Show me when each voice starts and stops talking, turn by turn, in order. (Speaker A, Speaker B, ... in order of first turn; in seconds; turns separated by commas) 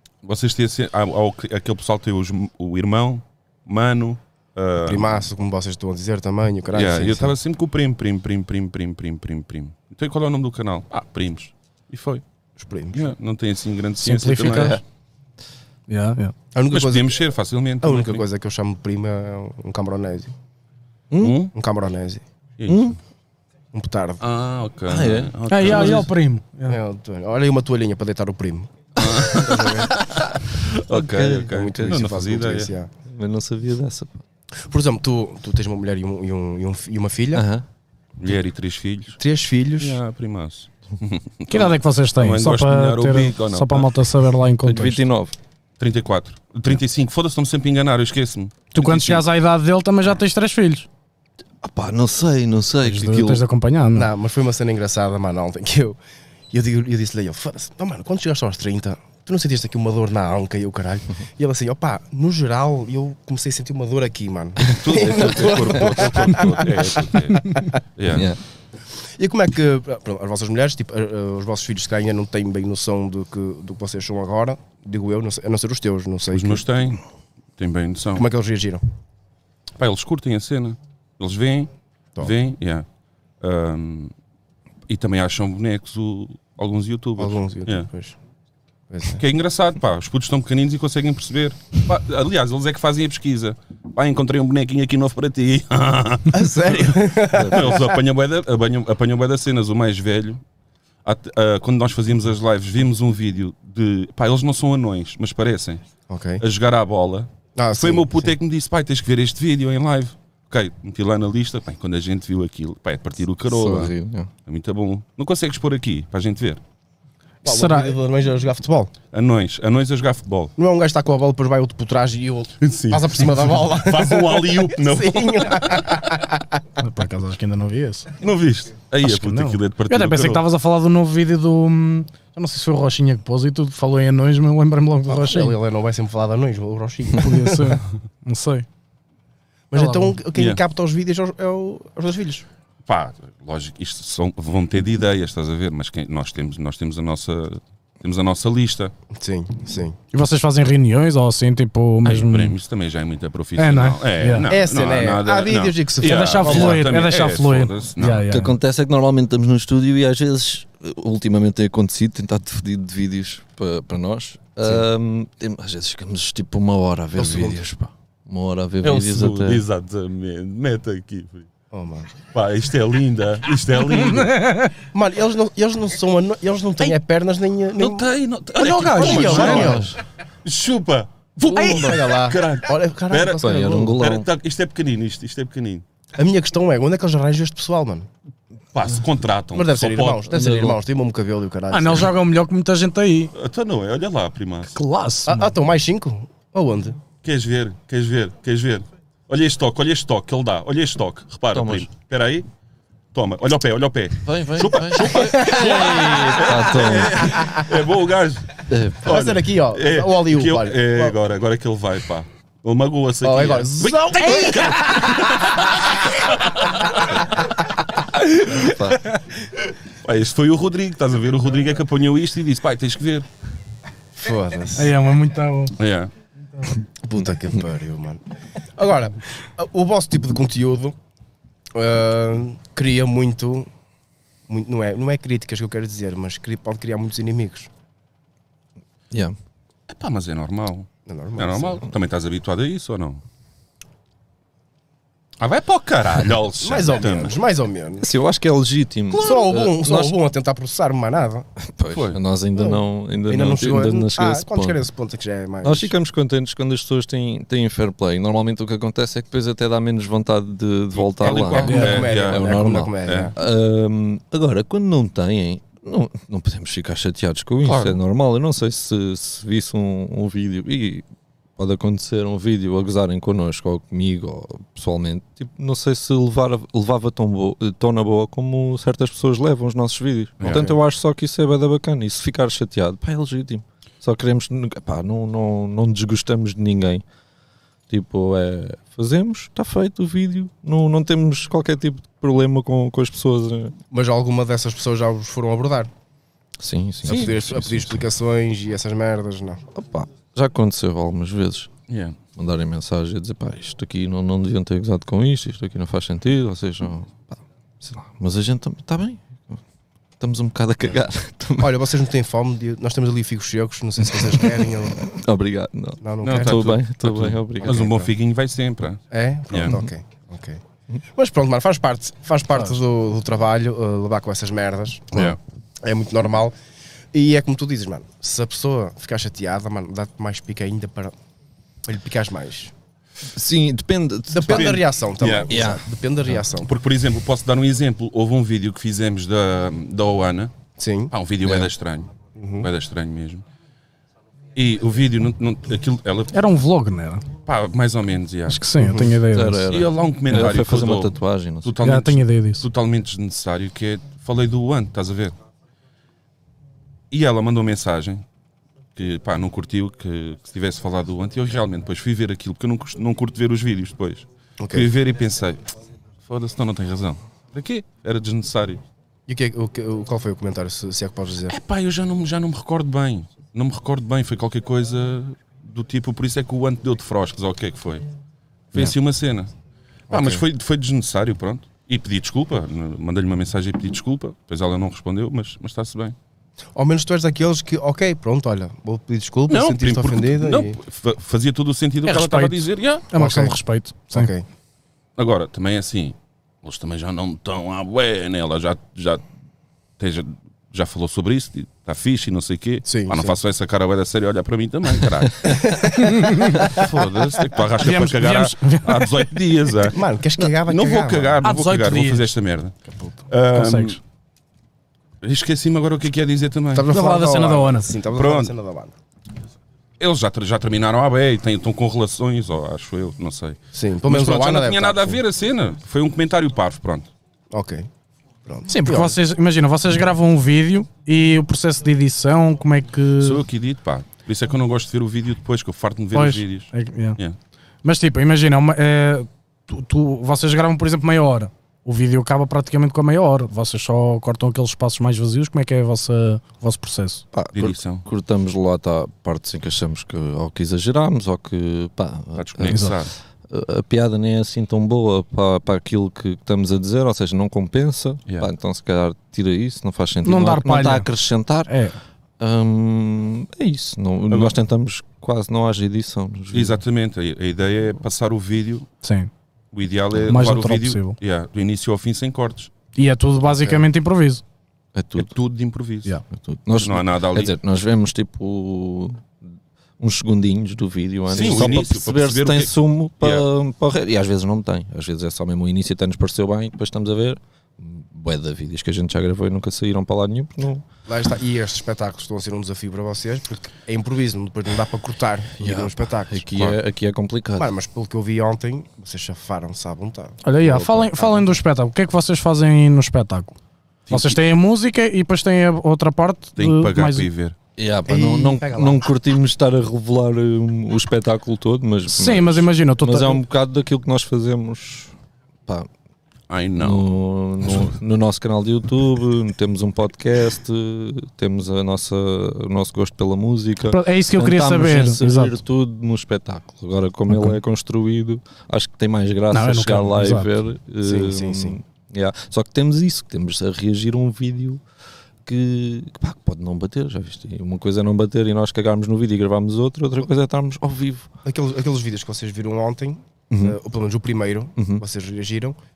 Speaker A: 0.2-5.2, Speaker B: 4.8-7.3, Speaker A: 6.7-12.2, Speaker B: 12.6-13.0, Speaker A: 12.9-14.8, Speaker C: 14.0-14.8, Speaker D: 14.2-14.8, Speaker C: 15.9-16.3, Speaker B: 16.5-17.2, Speaker A: 16.7-18.2, Speaker B: 17.8-20.3, Speaker D: 21.1-21.4, Speaker A: 21.2-21.5, Speaker B: 21.5-22.2, Speaker A: 22.6-22.9, Speaker D: 22.7-23.0, Speaker B: 23.7-24.2, Speaker A: 24.2-26.1, Speaker D: 24.9-26.0, Speaker C: 25.5-26.8, Speaker B: 26.7-29.9, Speaker A: 29.0-32.7, Speaker D: 30.9-32.0, Speaker B: 31.5-32.9, Speaker D: 33.0-34.2, Speaker B: 34.6-37.4, Speaker D: 37.3-37.6, Speaker A: 38.2-39.2, Speaker B: 39.2-40.0, Speaker A: 39.8-43.9, Speaker C: 41.5-45.0, Speaker D: 44.6-45.4, Speaker A: 45.8-49.2, Speaker C: 48.7-50.9, Speaker D: 51.6-53.4, Speaker C: 52.9-54.1, Speaker B: 53.9-56.0, Speaker B: 56.5-67.8, Speaker A: 64.6-68.3, Speaker D: 68.1-68.4, Speaker B: 69.2-76.6, Speaker A: 76.3-77.0, Speaker A: 77.6-78.2, Speaker B: 78.2-78.8, Speaker A: 79.8-82.9, Speaker A: 83.4-84.1, Speaker A: 84.9-87.9, Speaker B: 87.2-88.2, Speaker B: 88.9-89.2, Speaker A: 89.2-100.4, Speaker B: 96.3-97.9, Speaker D: 97.3-97.7, Speaker A: 101.0-105.8, Speaker B: 106.1-106.4, Speaker A: 106.4-113.9, Speaker B: 107.5-108.3, Speaker D: 113.5-114.3, Speaker A: 114.5-116.6, Speaker C: 117.4-117.9, Speaker B: 117.4-118.9, Speaker A: 119.1-120.5, Speaker B: 120.6-126.6, Speaker A: 122.6-126.0, Speaker C: 126.8-128.1, Speaker A: 128.2-130.4, Speaker C: 129.0-135.5, Speaker B: 135.1-137.8, Speaker C: 137.2-138.7, Speaker B: 139.7-142.4, Speaker C: 139.7-140.2, Speaker A: 140.3-140.6, Speaker A: 142.9-148.9, Speaker B: 149.1-150.0, Speaker C: 150.1-152.5, Speaker A: 152.0-158.3, Speaker C: 153.6-154.5, Speaker B: 154.5-156.8, Speaker C: 156.0-158.5, Speaker D: 158.3-169.6, Speaker B: 167.1-167.6, Speaker A: 168.8-171.5, Speaker B: 171.7-172.1, Speaker A: 172.3-174.5, Speaker C: 174.1-174.7, Speaker B: 174.9-178.1, Speaker A: 177.8-179.9, Speaker C: 178.6-179.7, Speaker B: 178.6-179.9, Speaker D: 179.0-180.0, Speaker A: 180.4-185.8, Speaker B: 181.4-183.9, Speaker D: 183.4-184.3, Speaker B: 186.2-188.1, Speaker A: 188.7-190.3, Speaker B: 189.5-192.1, Speaker D: 190.3-190.8, Speaker C: 191.7-193.3, Speaker A: 193.3-194.7, Speaker C: 194.7-195.4, Speaker B: 195.2-197.0, Speaker A: 197.2-202.5, Speaker D: 201.5-201.9, Speaker A: 203.1-217.2, Speaker D: 204.2-207.4, Speaker B: 205.0-206.1, Speaker B: 207.2-207.6, Speaker D: 208.7-209.2, Speaker B: 209.0-211.2, Speaker B: 213.2-215.6, Speaker D: 218.5-219.0, Speaker A: 220.0-223.2, Speaker B: 224.2-224.9, Speaker C: 224.7-225.7, Speaker A: 225.8-226.1, Speaker B: 227.0-228.2, Speaker B: 228.8-230.9, Speaker B: 231.7-233.7, Speaker B: 234.5-237.7, Speaker D: 239.1-239.4, Speaker A: 239.9-243.2, Speaker B: 241.1-241.8, Speaker A: 245.4-247.4, Speaker B: 246.6-248.1, Speaker D: 248.0-250.2, Speaker B: 249.1-251.5, Speaker D: 251.6-254.8, Speaker A: 251.9-252.2, Speaker B: 252.6-255.9, Speaker D: 255.6-271.1, Speaker A: 260.9-263.3, Speaker B: 261.3-263.4, Speaker C: 261.6-262.0, Speaker A: 267.6-268.0, Speaker D: 271.6-287.0, Speaker A: 280.4-280.7, Speaker D: 287.9-293.8, Speaker B: 293.9-295.9, Speaker D: 296.6-298.0, Speaker B: 297.0-299.6, Speaker A: 297.1-297.3, Speaker D: 299.7-301.7, Speaker A: 301.9-302.2, Speaker D: 302.4-309.6, Speaker D: 310.2-311.8, Speaker B: 311.6-315.0, Speaker D: 314.0-317.8, Speaker B: 316.0-316.6, Speaker A: 316.2-319.8, Speaker B: 317.6-318.1, Speaker B: 319.1-320.6, Speaker B: 321.1-326.5, Speaker A: 325.1-325.4, Speaker B: 327.1-331.1, Speaker B: 331.9-332.7, Speaker D: 333.3-334.8, Speaker B: 334.3-336.7, Speaker A: 334.5-335.6, Speaker D: 335.5-335.9, Speaker A: 336.6-340.5, Speaker B: 340.8-341.1, Speaker A: 341.1-342.1, Speaker D: 341.4-341.7, Speaker B: 342.4-342.7, Speaker A: 342.6-343.4, Speaker A: 344.5-346.3, Speaker C: 346.3-347.2, Speaker A: 347.4-348.6, Speaker C: 348.5-349.7, Speaker B: 348.8-349.1, Speaker D: 349.3-351.8, Speaker A: 349.7-355.4, Speaker C: 351.8-352.6, Speaker A: 357.1-358.2, Speaker A: 358.9-365.7, Speaker B: 364.6-364.9, Speaker A: 366.2-368.8, Speaker B: 369.3-371.5, Speaker A: 371.5-378.1, Speaker A: 378.7-379.5, Speaker B: 380.1-380.4, Speaker A: 380.1-386.1, Speaker B: 386.7-390.8, Speaker A: 389.5-393.1, Speaker C: 392.1-394.3, Speaker B: 393.1-393.6, Speaker B: 394.1-394.4, Speaker A: 395.2-399.2, Speaker A: 400.0-405.7, Speaker B: 402.9-403.4, Speaker B: 405.4-406.8, Speaker C: 406.0-406.6, Speaker A: 406.6-412.8, Speaker C: 407.8-409.1, Speaker B: 409.9-411.4, Speaker C: 411.4-412.3, Speaker C: 413.0-414.0, Speaker A: 413.3-414.0, Speaker A: 415.2-416.9, Speaker B: 416.7-418.9, Speaker C: 416.9-417.9, Speaker A: 418.1-418.5, Speaker A: 420.0-427.1, Speaker B: 423.7-425.2, Speaker B: 427.5-427.9, Speaker B: 428.4-429.2, Speaker C: 428.7-433.4, Speaker A: 433.2-437.4, Speaker C: 436.1-437.2, Speaker C: 437.8-447.2, Speaker D: 447.3-452.9, Speaker A: 447.5-448.0, Speaker A: 452.4-453.1, Speaker C: 452.7-452.9, Speaker D: 453.5-461.7, Speaker C: 460.2-461.1, Speaker C: 461.7-462.0, Speaker D: 462.4-466.8, Speaker A: 464.3-464.5, Speaker A: 466.5-468.9, Speaker C: 469.0-469.3, Speaker A: 469.7-472.7, Speaker C: 470.3-471.1, Speaker C: 472.9-474.4, Speaker D: 474.9-475.3, Speaker A: 475.1-476.1, Speaker D: 476.3-479.3, Speaker A: 476.8-477.5, Speaker D: 480.0-490.9, Speaker B: 481.3-481.8, Speaker A: 481.3-483.5, Speaker B: 491.1-496.6, Speaker D: 495.6-497.7, Speaker B: 497.6-501.6, Speaker C: 500.4-503.6, Speaker D: 500.6-501.0, Speaker A: 504.1-504.4, Speaker C: 504.1-507.3, Speaker A: 506.6-507.5, Speaker D: 507.8-515.1, Speaker B: 508.1-509.1, Speaker C: 512.1-513.4, Speaker A: 516.5-517.1, Speaker D: 516.8-534.8, Speaker C: 523.9-525.6, Speaker C: 527.3-527.6, Speaker C: 529.5-530.5, Speaker B: 531.0-531.8, Speaker D: 535.4-541.3, Speaker B: 541.4-545.8, Speaker D: 543.5-543.8, Speaker D: 544.8-545.0